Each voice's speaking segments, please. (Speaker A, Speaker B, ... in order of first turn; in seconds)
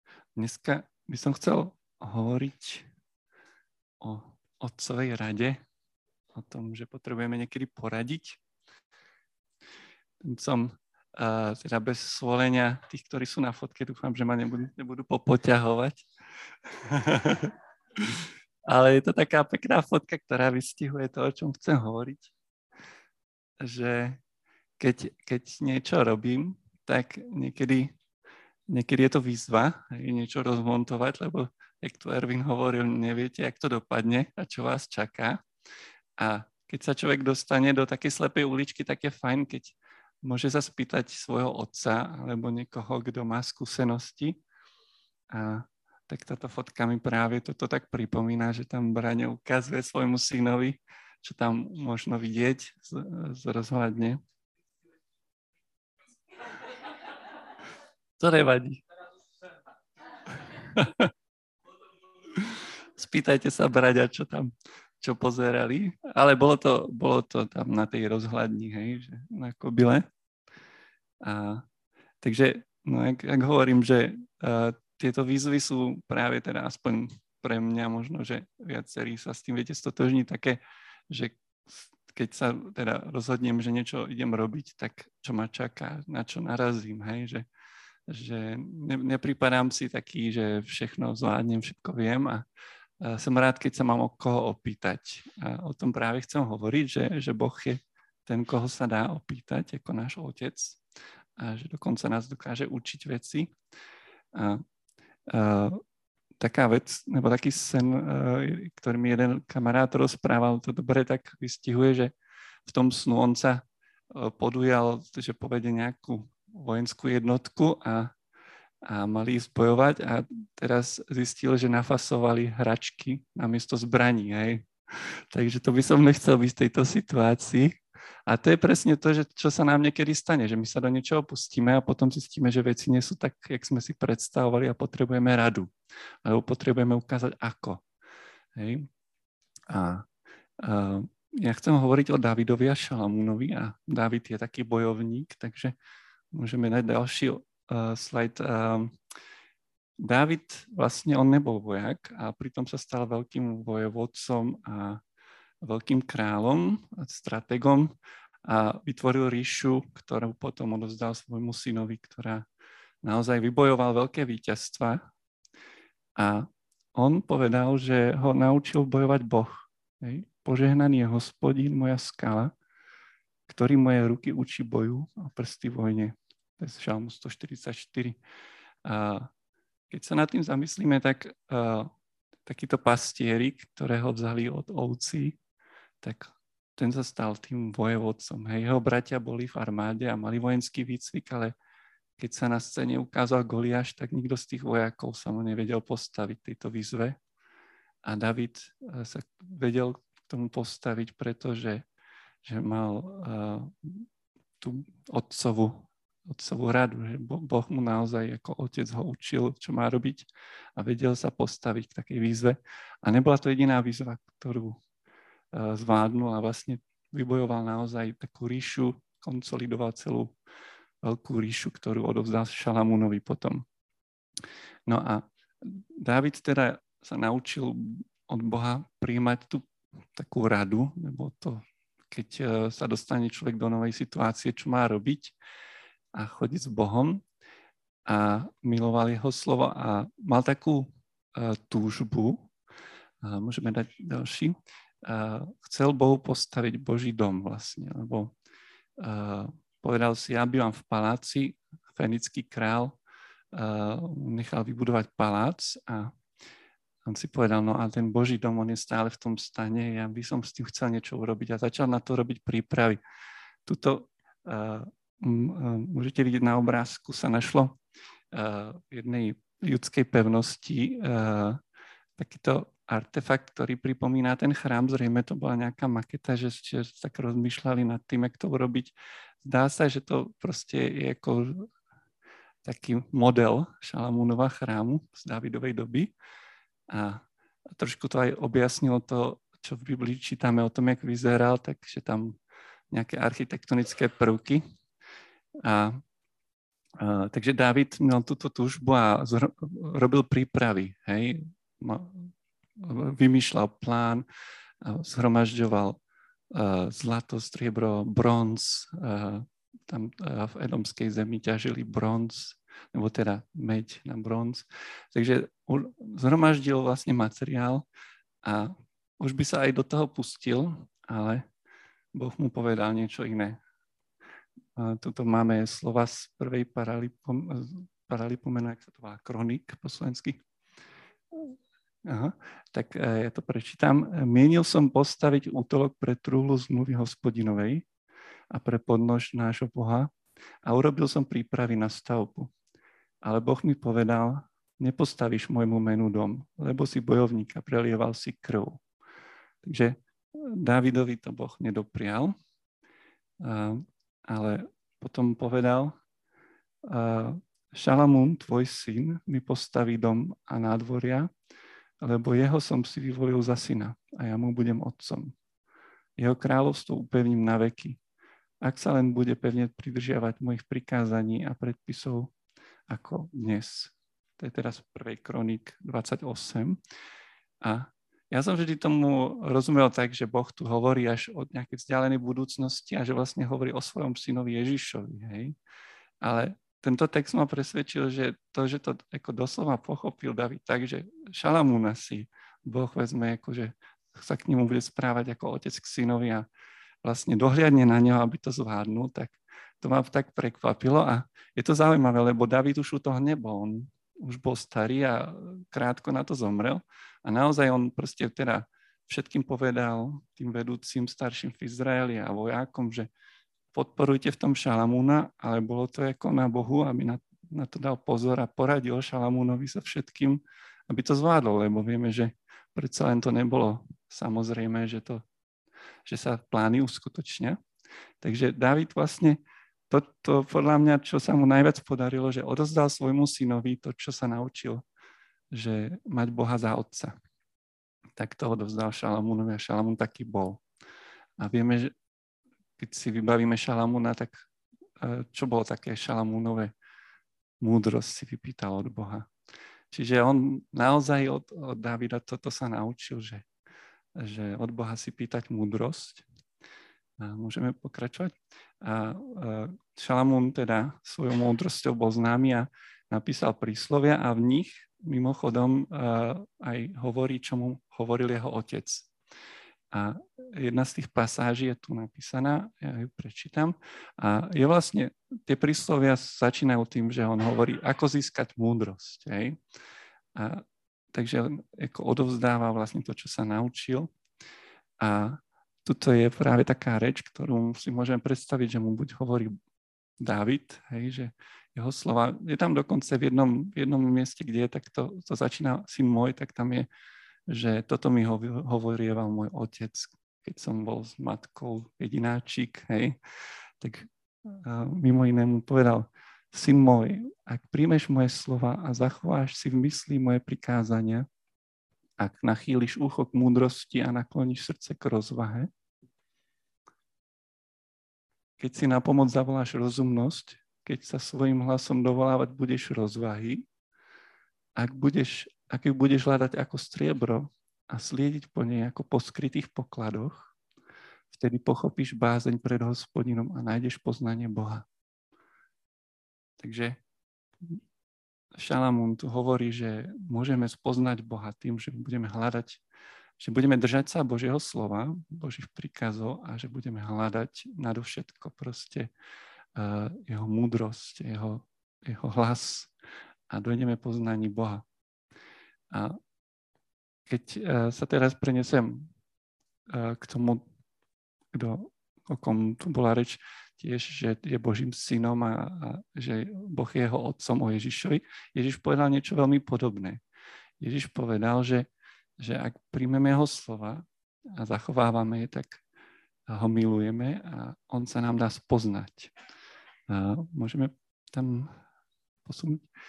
Speaker A: 0.4-2.9, 4.0-5.6, 6.3-8.4, 10.2-16.1, 16.7-22.3, 23.6-24.2, 24.8-27.9, 28.7-35.4, 36.2-44.4, 45.3-54.2, 58.2-58.8, 60.3-61.1, 62.3-70.1, 71.2-71.6, 72.2-87.5, 88.1-92.4, 93.0-100.8, 101.4-103.5, 104.3-104.6, 105.3-105.8, 106.4-112.2, 112.7-118.1, 118.8-135.7, 136.2-137.8, 138.6-138.9, 139.7-140.1, 140.6-145.8, 146.3-148.9, 150.0-155.0, 155.6-157.9, 158.4-162.5, 163.0-165.0, 166.2-172.5, 173.5-178.2, 178.8-179.3, 179.9-181.9, 182.5-185.4, 186.0-191.5, 192.2-197.2, 198.0-201.9, 202.4-204.1, 204.6-214.8, 215.5-220.3, 221.0-223.6, 224.9-235.3, 236.1-237.2, 238.1-242.5, 243.2-248.3, 249.0-253.0, 253.5-256.1, 257.1-263.0, 263.7-267.8, 268.3-271.6, 272.2-281.7, 282.6-286.1, 286.9-292.4, 292.9-294.6, 295.6-296.0, 297.0-304.3, 304.8-317.9, 318.4-321.4, 322.1-323.6, 324.8-330.4, 331.3-337.9, 338.5-340.1, 340.6-342.5, 343.2-348.8, 349.6-352.4, 353.4-356.0, 356.9-361.3, 362.0-365.4, 366.2-368.0, 368.6-372.3, 372.9-376.8, 377.6-385.6, 386.2-396.5, 397.0-413.1, 413.7-425.2, 426.1-427.6, 428.2-429.4, 429.9-434.8, 435.5-437.2, 438.2-440.6, 441.4-441.9, 442.8-444.5, 445.0-446.7, 447.6-449.3, 449.9-453.5, 454.1-456.2, 457.2-469.1, 469.9-479.6, 480.4-484.1, 485.0-489.6, 490.2-496.9, 497.5-503.2, 503.8-511.3, 512.2-515.7, 518.6-523.7, 524.8-530.5, 531.3-534.9, 536.6-537.0, 538.5-542.8, 543.4-549.1, 549.8-552.9, 553.5-554.8, 555.9-556.2, 557.3-559.1, 559.9-560.6, 561.5-570.2, 570.8-571.9, 572.4-575.8, 576.5-579.3, 580.1-581.8, 582.4-582.9